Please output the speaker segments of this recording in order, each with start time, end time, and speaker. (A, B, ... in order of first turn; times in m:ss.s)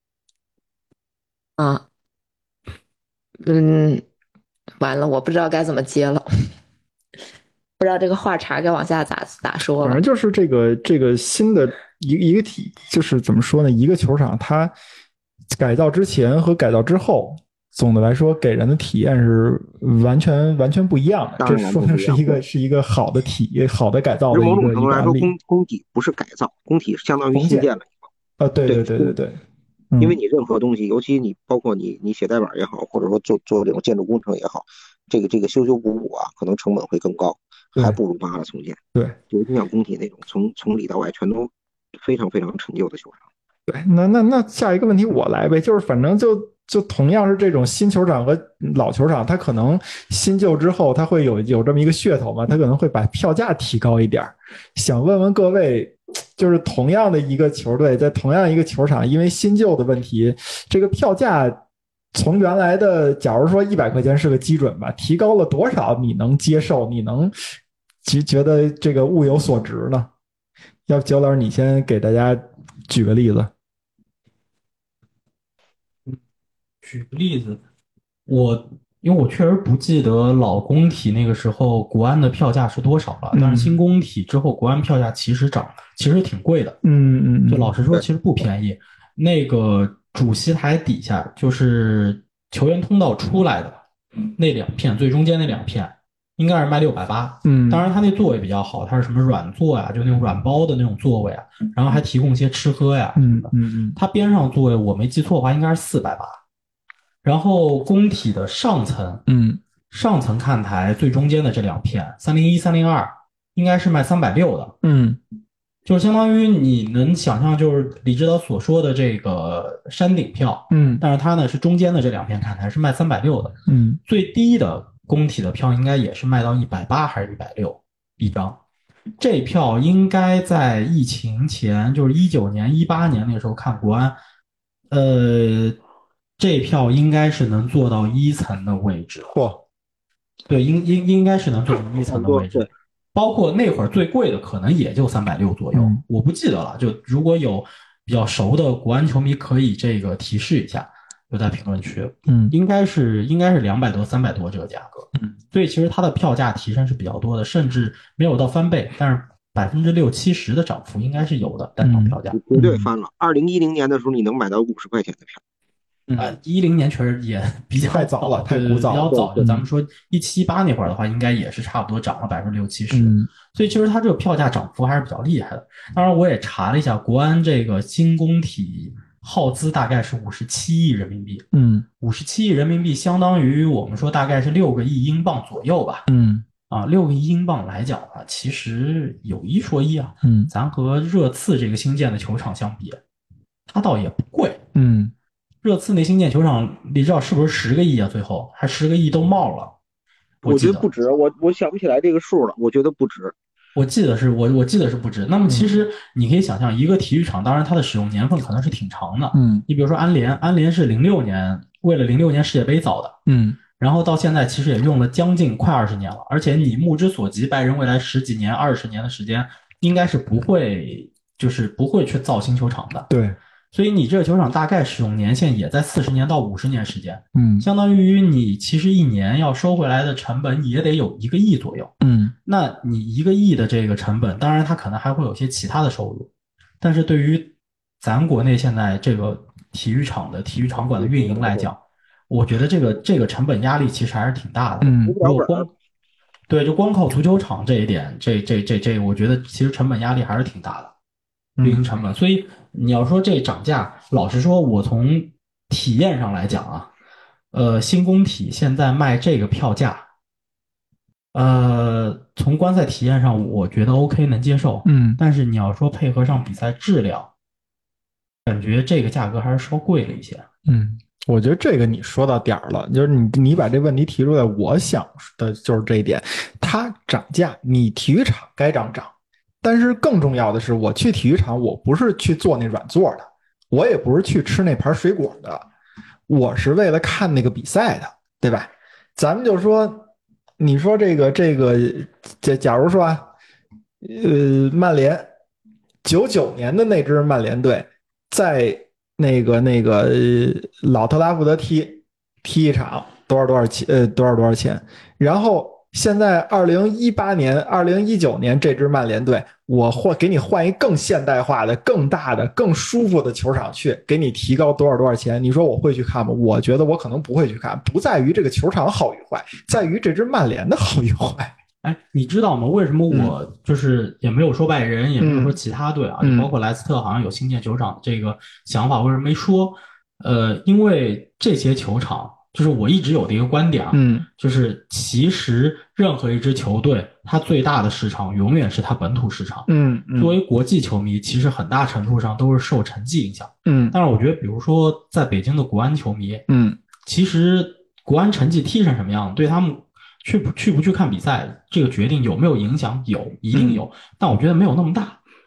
0:01.6-0:01.8 A
0:03.4-0:04.0 A
0:04.8-0:06.3 A
0:07.8-0:10.0 A
0:09.8-0:14.7 B
0:15.5-0:25.3 B
0:21.4-0:22.4 C
0:24.3-0:28.0 C
0:27.3-0:27.7 B
0:28.4-0:29.4 B
0:28.7-0:29.1 C
0:29.9-0:30.2 B
0:30.0-0:38.8 C
0:39.3-0:43.2 C
0:43.7-1:01.6 B
1:02.1-1:07.3 B
1:08.0-1:10.1 B
1:10.9-1:13.5 B
1:16.8-1:17.6 D
1:18.3-1:26.8 D
1:23.3-1:23.8 B
1:26.8-1:27.8 B
1:27.5-1:46.4 D
1:37.4-1:37.9 B
1:43.2-1:44.0 B
1:47.2-1:49.2 D
1:49.3-1:49.6 B
1:49.9-1:54.7 D
1:54.8-1:55.2 B
1:55.9-2:08.6 D
2:00.7-2:01.0 B
2:03.7-2:04.0 B
2:09.2-2:14.2 D
2:14.9-2:15.8 D
2:16.4-2:19.4 D
2:19.3-2:19.6 B
2:20.5-2:42.4 D
2:22.1-2:22.7 C
2:25.7-2:26.0 B
2:32.3-2:32.6 B
2:41.8-2:42.9 B
2:42.3-2:45.4 C
2:46.1-2:46.4 B
2:46.2-3:01.5 D
2:47.8-2:49.6 B
2:52.9-2:53.3 B
3:01.5-3:01.9 B
3:02.0-3:06.1 D
3:06.1-3:06.4 B
3:06.7-3:13.0 D
3:10.2-3:10.5 B
3:13.7-3:14.6 D
3:14.8-3:15.1 B
3:15.6-3:19.8 D
3:20.4-3:20.9 D
3:20.4-3:23.3 C
3:23.8-3:33.2 D
3:25.5-3:25.8 B
3:29.3-3:29.6 B
3:33.3-3:33.6 B
3:33.8-3:43.1 D
3:43.1-3:43.4 B
3:43.7-3:51.9 D
3:47.4-3:47.7 B
3:52.0-3:52.3 B
3:52.5-3:56.3 D
3:56.8-4:05.7 D
4:00.9-4:01.7 C
4:04.8-4:05.2 B
4:05.0-4:05.7 C
4:06.5-4:10.9 D
4:11.6-4:11.8 B
4:11.6-4:16.9 D
4:17.5-4:20.0 D
4:21.3-4:27.3 D
4:24.8-4:25.2 B
4:28.5-4:30.5 D
4:30.7-4:39.1 B
4:39.6-4:45.6 B
4:46.3-4:50.1 B
4:50.6-4:53.3 B
4:54.0-4:55.3 B
4:56.0-5:21.6 B
5:21.8-5:46.4 D
5:25.2-5:25.6 B
5:26.2-5:26.5 B
5:33.9-5:34.3 B
5:39.7-5:40.4 B
5:43.7-5:44.0 B
5:46.5-5:46.8 B
5:47.0-5:55.2 D
5:53.5-5:53.8 B